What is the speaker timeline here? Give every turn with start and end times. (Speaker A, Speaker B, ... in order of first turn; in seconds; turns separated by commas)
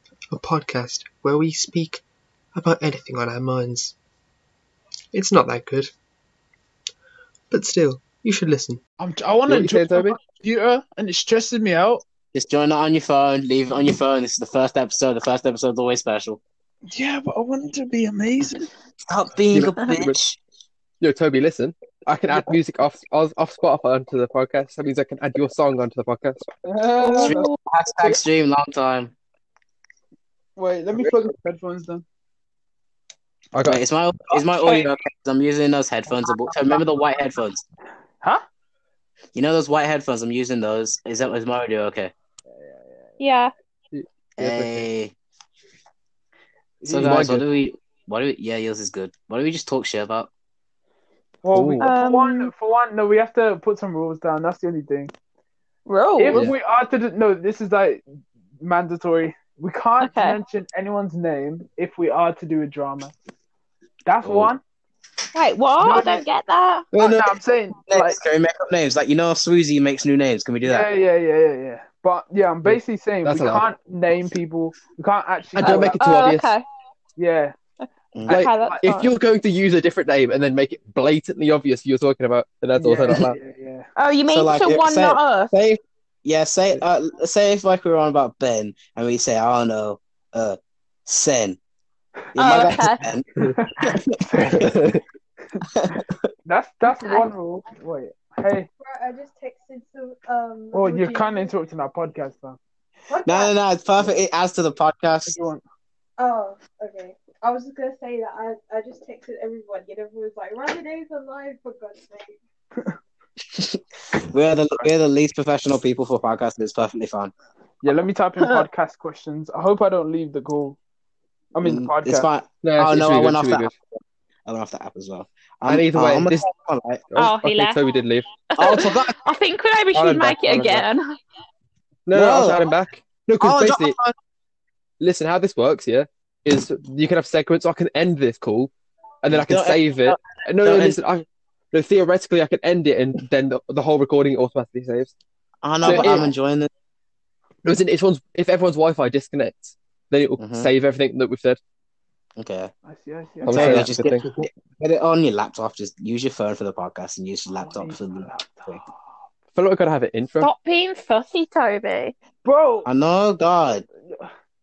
Speaker A: 0.3-2.0, Speaker A: 2.5-4.0, Speaker A: 5.1-5.9, Speaker A: 7.5-8.8, Speaker B: 9.0-12.0, Speaker C: 9.5-10.2, Speaker D: 12.3-16.4, Speaker B: 16.9-18.7, Speaker D: 19.1-20.4, Speaker C: 19.5-20.1, Speaker C: 21.0-26.4, Speaker B: 26.6-27.5, Speaker E: 27.0-28.1, Speaker D: 27.1-29.1, Speaker B: 30.6-32.0, Speaker C: 33.5-33.8, Speaker D: 33.6-37.6, Speaker E: 34.3-34.9, Speaker D: 39.3-42.1, Speaker E: 43.2-43.5, Speaker C: 43.9-44.9, Speaker D: 44.4-45.1, Speaker C: 46.9-47.4, Speaker D: 46.9-50.3, Speaker B: 51.4-55.1, Speaker C: 51.5-51.9, Speaker E: 51.8-52.5, Speaker E: 55.9-56.5, Speaker B: 56.2-58.0, Speaker B: 58.6-63.1, Speaker E: 60.0-60.4, Speaker B: 64.1-64.6, Speaker E: 65.3-66.9, Speaker B: 65.8-66.2, Speaker D: 66.9-70.9, Speaker B: 67.0-68.2, Speaker B: 70.6-76.2, Speaker C: 72.7-73.7, Speaker C: 75.6-76.5, Speaker E: 75.6-76.6, Speaker B: 77.2-77.5, Speaker E: 77.8-79.1, Speaker C: 78.3-83.4, Speaker B: 78.3-78.8, Speaker B: 82.8-83.9, Speaker E: 84.0-85.5, Speaker D: 84.3-91.6, Speaker D: 92.3-93.3, Speaker E: 92.4-93.0, Speaker B: 93.4-94.8, Speaker D: 93.8-94.8, Speaker C: 94.5-95.0, Speaker D: 95.7-96.2, Speaker B: 96.5-98.7, Speaker E: 96.9-97.2, Speaker F: 98.8-101.5, Speaker B: 100.7-102.6, Speaker F: 103.1-103.5, Speaker D: 103.2-105.4, Speaker B: 105.3-105.6, Speaker F: 106.2-112.4, Speaker D: 113.5-117.3, Speaker B: 117.8-120.8, Speaker B: 121.5-122.3, Speaker D: 121.6-127.0, Speaker C: 122.6-123.7, Speaker C: 125.7-126.5, Speaker C: 127.1-128.9, Speaker E: 127.2-127.8, Speaker E: 128.5-131.2, Speaker D: 128.6-129.2, Speaker C: 129.9-130.9, Speaker C: 132.1-133.9, Speaker D: 132.1-132.7, Speaker D: 133.4-134.2, Speaker C: 135.0-138.7, Speaker C: 139.2-145.1, Speaker D: 139.3-141.0, Speaker D: 145.6-146.7, Speaker B: 145.8-146.3, Speaker C: 145.8-146.3, Speaker C: 147.7-151.6, Speaker D: 150.4-150.7, Speaker D: 152.4-152.7, Speaker B: 152.9-154.1, Speaker C: 153.4-154.4, Speaker D: 153.4-158.8, Speaker B: 157.6-158.9, Speaker C: 159.6-160.5, Speaker E: 160.4-162.2, Speaker B: 162.4-162.9, Speaker D: 162.9-163.8